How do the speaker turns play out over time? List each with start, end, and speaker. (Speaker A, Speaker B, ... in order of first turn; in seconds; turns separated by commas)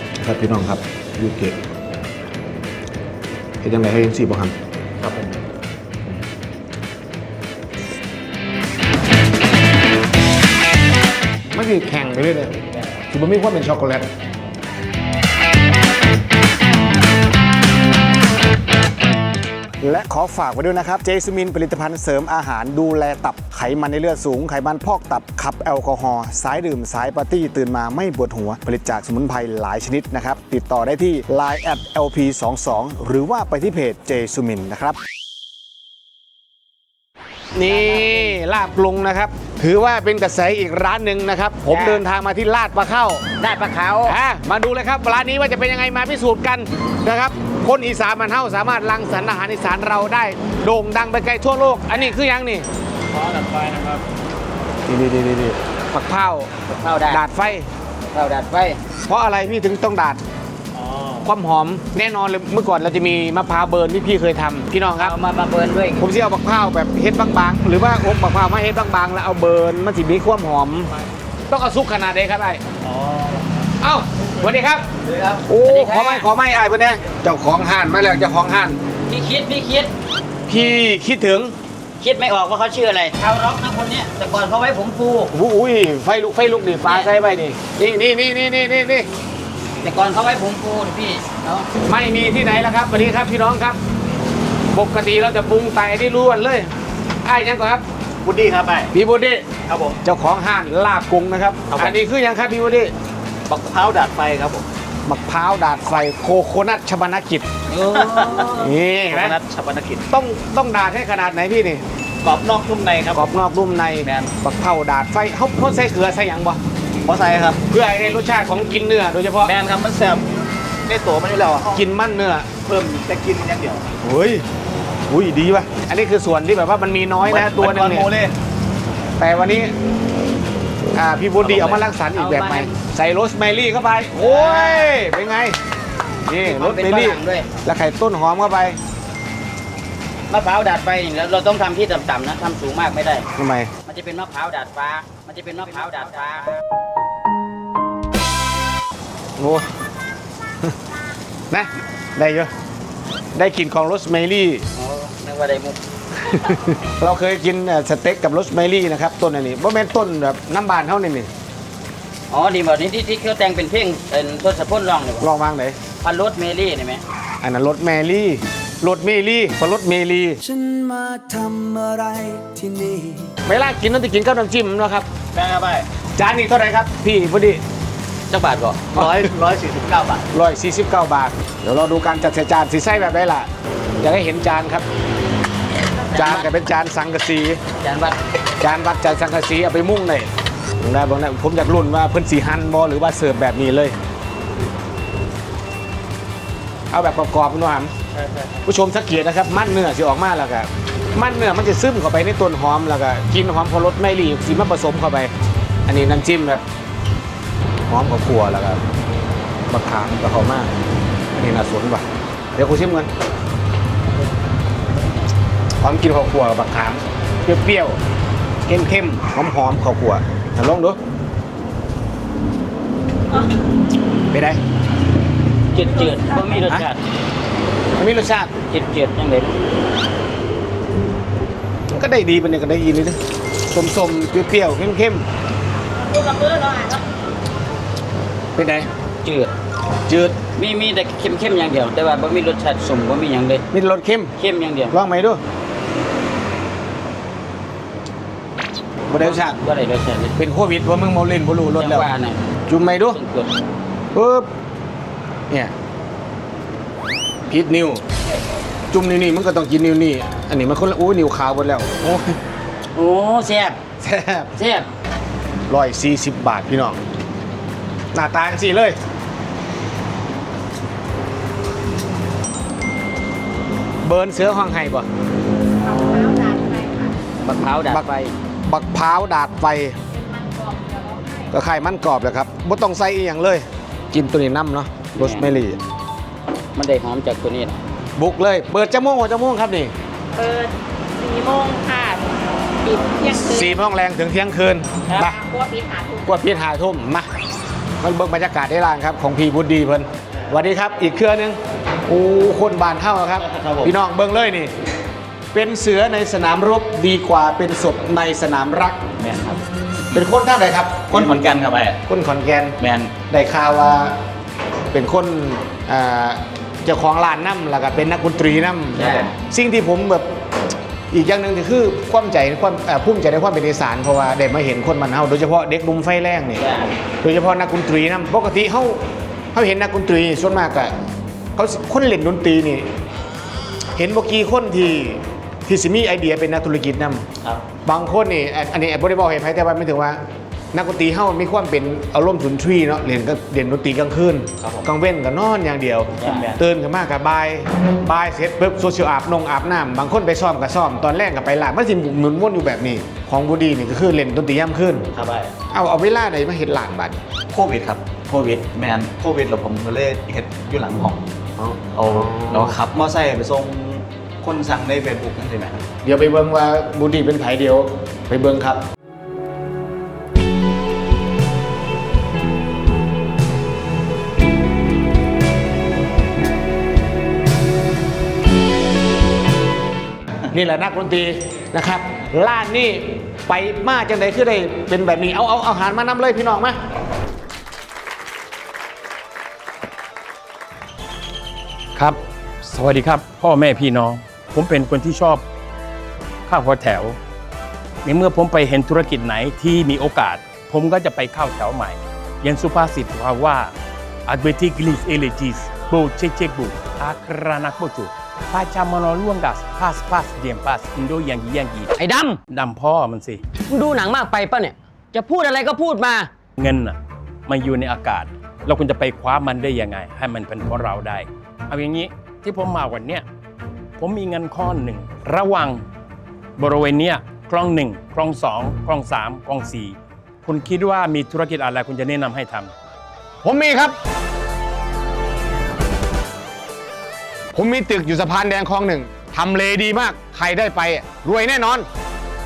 Speaker A: 0.2-1.6, Speaker A: 3.6-4.5, Speaker A: 11.5-14.1, Speaker A: 19.8-35.0, Speaker A: 37.5-43.2, Speaker B: 37.6-38.4, Speaker B: 41.7-42.0, Speaker B: 43.4-44.1, Speaker A: 44.0-52.6, Speaker C: 53.1-54.0, Speaker A: 54.9-56.5, Speaker B: 56.7-57.2, Speaker A: 57.1-57.7, Speaker B: 58.1-58.8, Speaker A: 59.1-60.2, Speaker C: 60.7-61.2, Speaker A: 61.2-65.2, Speaker B: 65.0-66.0, Speaker A: 66.0-70.9, Speaker A: 71.5-72.6, Speaker C: 72.8-73.7, Speaker A: 73.8-74.8, Speaker C: 75.0-75.4, Speaker A: 75.5-78.8, Speaker B: 75.6-76.3, Speaker B: 79.1-79.9, Speaker A: 80.5-81.5, Speaker B: 82.0-85.3, Speaker A: 85.3-89.1, Speaker B: 86.8-87.1, Speaker B: 89.8-91.7, Speaker A: 91.8-93.8, Speaker A: 94.7-96.7, Speaker A: 97.2-97.8, Speaker C: 98.2-98.9, Speaker A: 98.9-99.5, Speaker C: 99.7-100.0, Speaker A: 100.0-102.9, Speaker C: 101.7-102.0, Speaker C: 103.5-104.7, Speaker A: 105.0-107.4, Speaker B: 107.7-108.7, Speaker C: 107.8-110.1, Speaker A: 108.6-109.3, Speaker A: 110.1-111.8, Speaker C: 112.2-113.2, Speaker A: 113.1-116.6, Speaker C: 114.0-114.3, Speaker C: 117.0-117.6, Speaker A: 117.7-119.5, Speaker C: 119.4-120.3, Speaker C: 120.8-121.8, Speaker A: 121.6-122.5, Speaker C: 122.6-123.8, Speaker A: 124.0-124.5, Speaker A: 125.1-128.1, Speaker C: 127.2-128.3, Speaker A: 129.2-129.7, Speaker A: 130.9-135.6, Speaker C: 131.4-131.9, Speaker B: 132.1-132.7, Speaker B: 134.2-134.9, Speaker A: 136.2-138.8, Speaker B: 136.4-137.5, Speaker B: 140.3-143.3, Speaker A: 143.3-143.7, Speaker B: 143.8-146.5, Speaker A: 149.4-149.7, Speaker A: 151.5-152.5, Speaker A: 153.3-154.7, Speaker B: 154.7-155.8, Speaker A: 156.3-161.3, Speaker B: 162.3-165.3, Speaker A: 165.2-165.8, Speaker B: 166.0-167.0, Speaker A: 167.4-170.4, Speaker D: 170.4-173.3, Speaker A: 173.4-175.1, Speaker C: 175.3-175.9, Speaker A: 176.2-177.6, Speaker B: 178.3-178.8, Speaker C: 178.9-180.3, Speaker A: 179.0-179.3, Speaker A: 180.3-183.5, Speaker A: 184.0-184.8, Speaker B: 186.0-186.5, Speaker A: 186.1-187.6, Speaker B: 187.8-188.2, Speaker A: 188.6-193.9, Speaker A: 196.9-197.9, Speaker A: 198.6-205.3, Speaker A: 205.9-206.6, Speaker A: 207.9-208.8, Speaker A: 209.7-210.7, Speaker A: 211.3-213.1, Speaker A: 215.8-218.0, Speaker A: 218.7-221.0, Speaker A: 224.3-224.6, Speaker B: 225.7-227.0, Speaker A: 228.0-228.5, Speaker B: 228.7-229.5, Speaker A: 231.9-233.2, Speaker A: 233.7-235.2, Speaker E: 236.1-237.0, Speaker A: 238.5-238.9, Speaker B: 239.2-239.5, Speaker A: 240.1-240.3, Speaker B: 240.5-243.6, Speaker A: 243.7-244.3, Speaker B: 244.4-244.9, Speaker A: 244.9-245.4, Speaker A: 249.1-249.6, Speaker B: 249.2-250.3, Speaker A: 250.4-252.1, Speaker B: 251.8-252.4, Speaker A: 252.7-253.2, Speaker B: 253.1-253.5, Speaker A: 254.1-254.5, Speaker A: 257.5-258.0, Speaker A: 258.9-262.3, Speaker B: 262.9-263.8, Speaker A: 264.0-264.5, Speaker B: 264.6-264.9, Speaker A: 265.7-267.0, Speaker A: 268.1-269.0, Speaker A: 274.0-275.1, Speaker E: 275.9-277.1, Speaker B: 277.4-278.3, Speaker A: 278.6-280.0, Speaker E: 280.1-281.5, Speaker A: 281.5-285.8, Speaker B: 285.1-285.5, Speaker B: 286.8-287.8, Speaker A: 288.1-289.9, Speaker E: 290.4-293.8, Speaker A: 293.3-295.4, Speaker E: 295.2-296.2, Speaker A: 296.2-297.3, Speaker A: 298.0-304.7, Speaker C: 303.4-303.9, Speaker A: 305.5-309.0, Speaker C: 309.2-310.2, Speaker A: 310.1-311.5, Speaker C: 311.1-312.0, Speaker A: 312.0-314.1, Speaker C: 312.8-313.1, Speaker A: 314.9-320.2, Speaker B: 318.9-319.3, Speaker A: 321.1-326.6, Speaker B: 326.6-326.9, Speaker A: 327.2-329.0, Speaker A: 329.5-330.9, Speaker A: 331.6-332.9, Speaker A: 333.9-337.2, Speaker A: 337.8-340.2, Speaker A: 340.7-355.1, Speaker C: 344.6-344.9, Speaker B: 346.2-346.5, Speaker C: 346.2-346.6, Speaker C: 355.1-355.5, Speaker A: 355.7-357.2, Speaker C: 357.5-361.2, Speaker A: 361.6-362.8, Speaker C: 361.9-365.8, Speaker A: 366.0-368.8, Speaker A: 380.5-386.8, Speaker F: 391.9-395.4, Speaker F: 396.5-397.2, Speaker F: 398.0-403.7, Speaker F: 404.3-411.9, Speaker G: 412.0-412.4, Speaker F: 412.4-413.4, Speaker G: 413.7-416.3, Speaker F: 416.6-423.2, Speaker F: 424.0-425.8, Speaker F: 426.6-432.7, Speaker A: 433.4-433.9, Speaker A: 437.5-441.9